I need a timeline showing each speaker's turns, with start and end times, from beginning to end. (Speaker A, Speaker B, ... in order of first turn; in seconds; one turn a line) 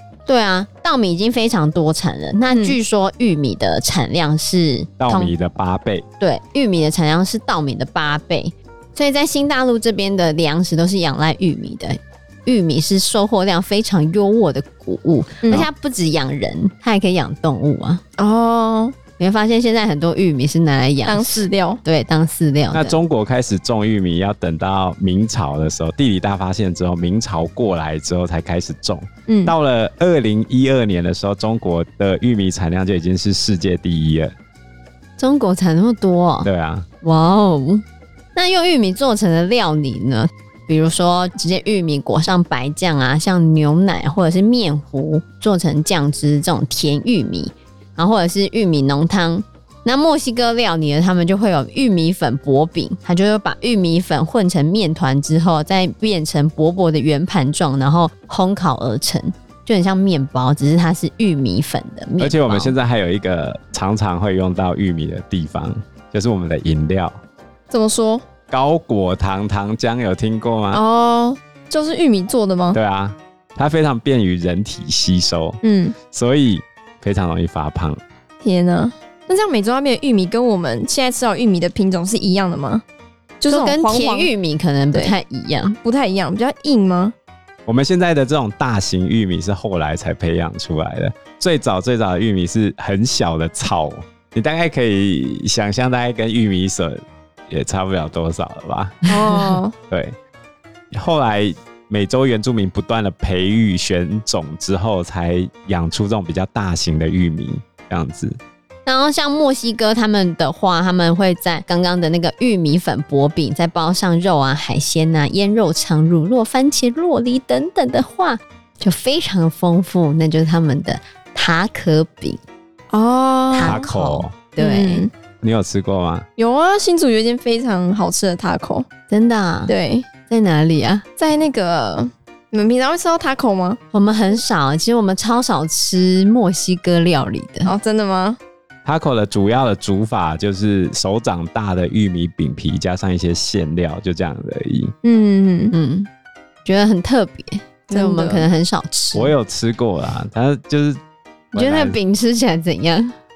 Speaker A: 0.3-5.3
Speaker B: 2.5-2.8
Speaker C: 5.0-6.1
Speaker A: 6.2-18.0
Speaker B: 15.4-15.7
Speaker B: 18.2-18.9
Speaker A: 19.2-23.0
Speaker B: 21.1-21.8
Speaker C: 22.7-34.3
Speaker B: 29.3-29.6
Speaker A: 35.2-36.5
Speaker C: 36.4-36.9
Speaker A: 37.0-37.8
Speaker A: 38.4-62.8
Speaker C: 62.2-67.2
Speaker B: 67.7-68.2
Speaker C: 68.5-70.8
Speaker B: 70.7-72.8
Speaker C: 72.7-75.6
Speaker B: 75.6-76.0
Speaker C: 76.1-78.0
Speaker B: 78.4-82.8
Speaker B: 83.4-84.3
Speaker A: 83.5-85.8
Speaker B: 85.8-87.1
Speaker C: 87.7-99.1
Speaker B: 99.1-99.7
Speaker C: 99.9-100.2
Speaker C: 100.9-108.4
Speaker A: 108.9-122.4
Speaker B: 122.9-123.8
Speaker A: 123.5-125.1
Speaker C: 123.6-124.4
Speaker B: 124.6-125.1
Speaker C: 125.4-126.3
Speaker B: 126.4-128.9
Speaker A: 129.1-129.7
Speaker B: 129.7-130.1
Speaker A: 130.3-131.1
Speaker B: 131.2-133.8
Speaker A: 133.9-137.7
Speaker B: 137.7-138.4
Speaker C: 138.8-144.9
Speaker B: 145.0-145.7
Speaker A: 145.7-146.1
Speaker A: 146.7-149.3
Speaker B: 147.9-148.4
Speaker C: 149.1-151.0
Speaker C: 151.5-152.0
Speaker A: 151.5-153.2